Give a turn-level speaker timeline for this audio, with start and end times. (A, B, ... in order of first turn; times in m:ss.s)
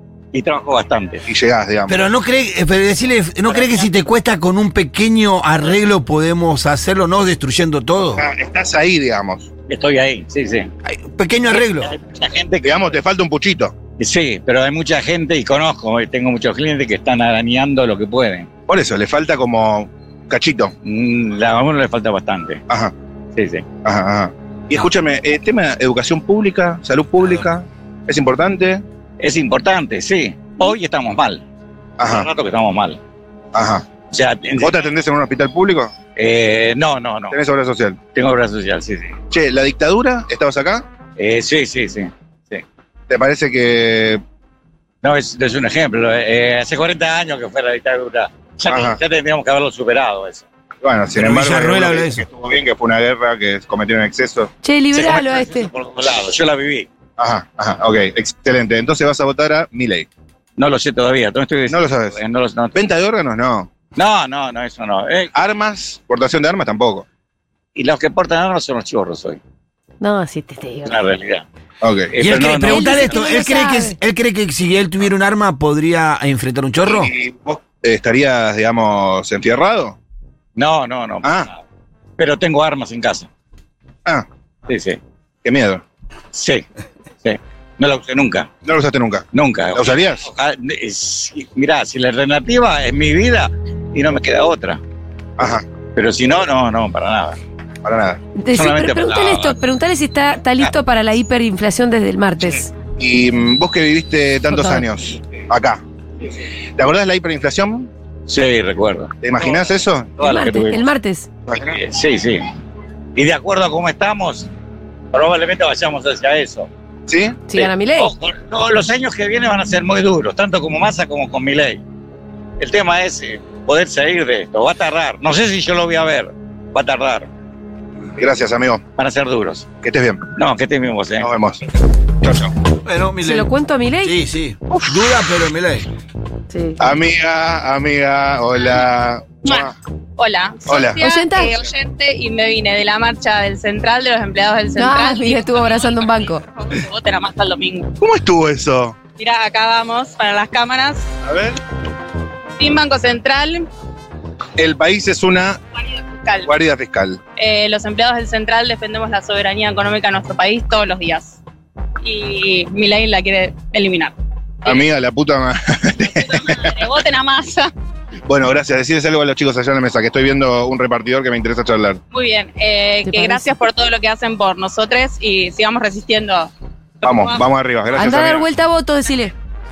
0:00.3-0:01.2 A
0:01.3-0:02.0 B
0:01.9-0:08.2 C
0:03.5-0:03.8 A
0:08.2-0:09.5 B
0:09.7-0:10.7 A
0:10.8-0:11.9 C
0:11.7-0:13.0 A
0:12.6-0:13.7 B
0:14.0-0:18.5 A
0:18.7-0:20.7 B
0:20.8-0:22.6 A
0:22.7-0:22.9 B
0:23.3-0:23.6 A
0:23.8-0:28.8 B
0:29.2-0:31.4 A
0:32.0-0:32.3 B
0:32.0-0:33.0 A
0:33.5-0:33.9 B
0:34.1-0:34.8 A
0:34.6-0:35.9 B
0:36.2-0:37.4 A
0:37.3-0:38.0 B
0:38.1-0:39.2 A
0:39.3-0:40.9 B
0:41.2-0:42.6 A
0:43.1-0:44.2 B
0:45.0-0:50.4 A
0:48.7-0:49.0 B
0:50.8-0:54.5 B
0:51.1-0:52.2 C
0:54.6-0:55.7 D
0:54.9-0:56.9 A
0:57.2-1:00.1 B
1:00.6-1:02.8 A
1:01.7-1:02.2 B
1:02.7-1:03.7 B
1:03.9-1:05.3 A
1:05.3-1:07.0 B
1:07.8-1:09.4 A
1:10.0-1:11.0 D
1:10.8-1:11.4 A
1:11.8-1:12.1 B
1:12.1-1:13.0 A
1:12.2-1:17.1 C
1:12.7-1:14.0 D
1:16.8-1:20.0 B
1:20.6-1:21.6 A
1:21.2-1:21.5 B
1:22.2-1:23.3 A
1:24.7-1:25.0 A
1:25.4-1:25.8 B
1:26.3-1:26.6 A
1:27.2-1:28.5 A
1:28.6-1:30.3 B
1:29.3-1:34.8 A
1:35.4-1:35.6 B
1:35.9-1:37.4 A
1:37.8-1:38.2 B
1:38.4-1:42.7 D
1:38.5-1:39.6 A
1:43.0-1:45.8 B
1:44.5-1:44.8 D
1:46.8-1:47.9 B
1:48.3-1:49.6 A
1:49.2-1:50.1 B
1:50.2-1:50.8 A
1:50.2-1:51.3 D
1:51.6-1:52.4 A
1:53.1-1:54.5 A
1:55.1-1:56.7 A
1:57.1-1:57.4 B
1:57.5-1:58.1 D
1:57.5-2:01.8 A
2:02.6-2:07.3 A
2:08.2-2:08.8 B
2:09.0-2:09.7 A
2:09.8-2:10.2 B
2:10.4-2:11.3 A
2:11.2-2:11.6 B
2:12.2-2:12.5 B
2:12.8-2:13.5 C
2:13.2-2:14.2 D
2:14.0-2:15.8 C
2:16.5-2:16.8 D
2:16.8-2:19.7 B
2:19.4-2:27.9 E
2:20.7-2:21.0 B
2:21.0-2:21.6 D
2:24.8-2:26.4 D
2:28.0-2:29.0 B
2:29.2-2:31.1 E
2:31.2-2:31.6 B
2:32.6-2:33.7 E
2:34.6-2:35.6 B
2:35.9-2:36.5 E
2:36.4-2:37.2 B
2:37.4-2:41.4 E
2:42.0-2:44.8 E
2:44.6-2:46.7 B
2:46.0-2:47.7 E
2:48.3-2:52.0 B
2:52.1-2:56.5 E
2:53.0-2:53.5 D
2:57.0-2:57.4 E
2:57.0-2:58.4 B
2:57.9-2:59.3 D